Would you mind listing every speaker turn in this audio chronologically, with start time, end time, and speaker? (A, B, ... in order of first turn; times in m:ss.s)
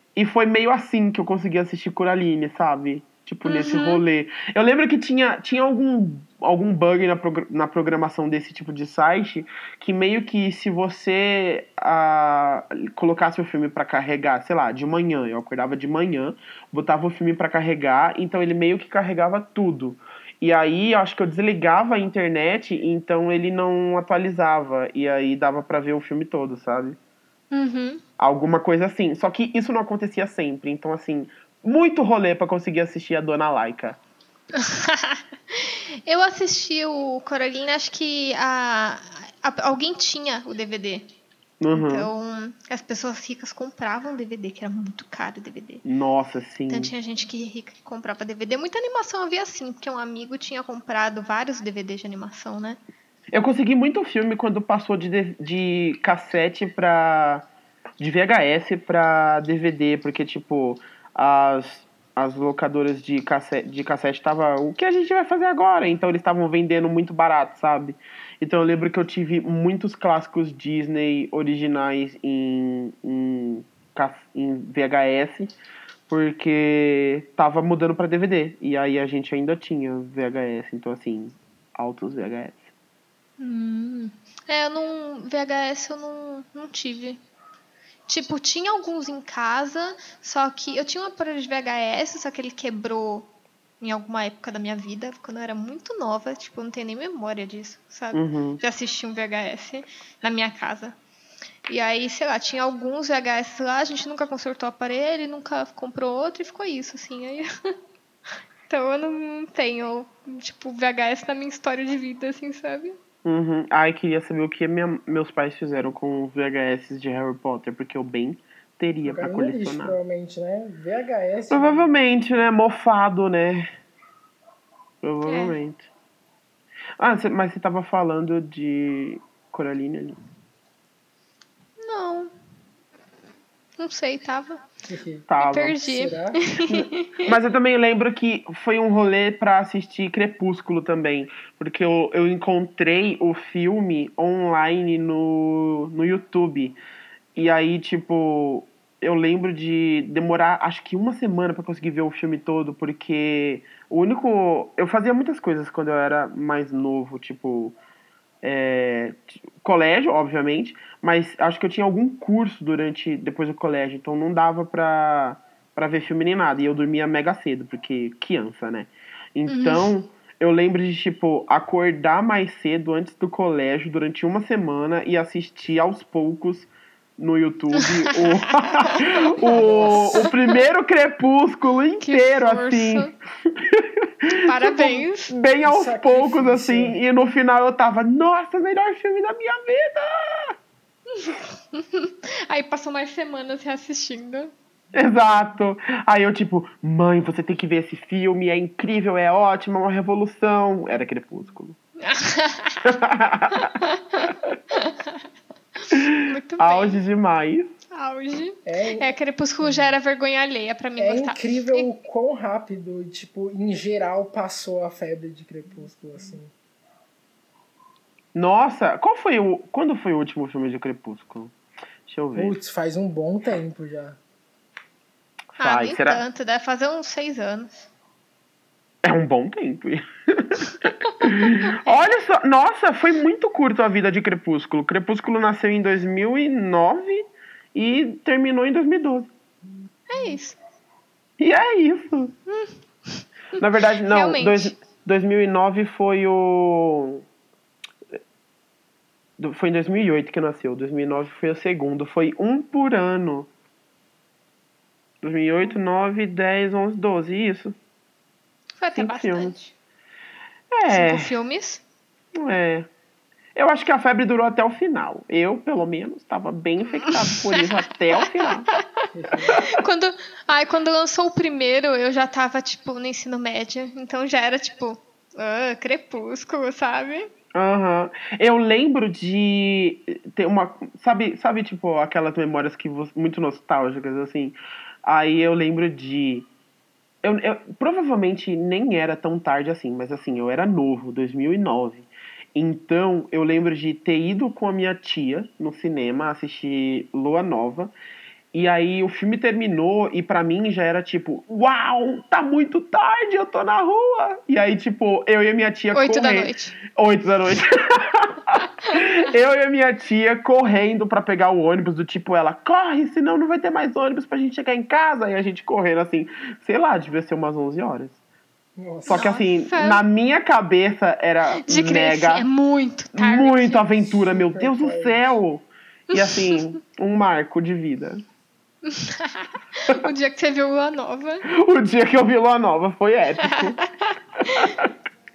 0:00.2-0:27.0 A
0:03.4-0:04.0 B
0:27.5-0:28.0 B
0:28.2-0:34.0 A
0:34.5-0:41.1 B
0:41.6-0:42.1 A
0:41.7-0:45.8 B
0:45.8-0:46.9 A
0:46.7-0:52.8 B
0:53.3-0:57.4 A
0:58.0-1:15.5 A
1:16.1-1:22.7 A
1:23.4-1:27.2 B
1:28.1-1:33.3 B
1:33.8-1:41.0 B
1:38.1-1:38.6 A
1:41.7-1:47.5 B
1:48.7-1:53.0 B
1:53.2-2:00.0 A
1:59.0-2:01.8 C
2:01.5-2:03.7 A
2:05.0-2:05.9 A
2:05.2-2:05.6 B
2:07.0-2:10.2 A
2:11.8-2:12.3 B
2:13.8-2:14.6 B
2:14.9-2:15.3 C
2:15.3-2:15.8 A
2:15.4-2:17.3 B
2:15.8-2:16.4 C
2:16.7-2:26.8 A
2:27.3-2:37.8 A
2:38.4-3:10.5 A
2:49.5-2:49.9 B
2:57.8-2:59.1 B
2:59.4-3:00.3 C
2:59.9-3:00.3 B
3:02.0-3:03.1 B
3:04.4-3:05.3 B
3:05.6-3:07.0 C
3:11.1-3:14.5 B
3:14.9-3:21.8 A
3:22.0-3:22.9 B
3:22.8-3:23.7 A
3:23.6-3:25.2 B
3:25.8-3:27.0 B
3:25.9-3:27.7 A
3:27.9-3:31.9 B
3:28.6-3:29.1 C
3:31.0-3:36.5 C
3:38.3-3:41.5 A
3:42.1-3:42.6 A
3:42.3-3:44.2 C
3:45.6-3:46.2 A
3:45.6-3:47.9 B
3:49.0-3:59.3 A
3:51.7-3:52.1 B
4:00.1-4:00.6 B
4:01.4-4:02.3 A
4:02.5-4:04.7 B
4:03.6-4:07.2 A
4:09.4-4:13.5 A
4:15.2-4:17.7 A
4:18.8-4:19.7 B
4:19.0-4:19.5 A
4:20.7-4:21.3 A
4:20.9-4:21.8 B
4:22.3-4:22.9 A
4:23.5-4:28.7 A
4:27.0-4:37.3 B
4:29.1-4:29.6 C
4:37.5-4:46.4 A
4:47.2-4:57.9 A
4:58.5-5:18.2 A
5:05.9-5:06.8 B
5:18.8-5:19.3 C
5:19.1-5:22.4 A
5:19.1-5:20.0 B
5:21.5-5:23.8 B
5:23.1-5:28.2 A
5:24.0-5:25.4 C
5:26.1-5:26.6 B
5:28.8-5:31.4 B
5:31.5-5:33.8 A
5:33.4-5:34.7 B
5:34.4-5:34.9 A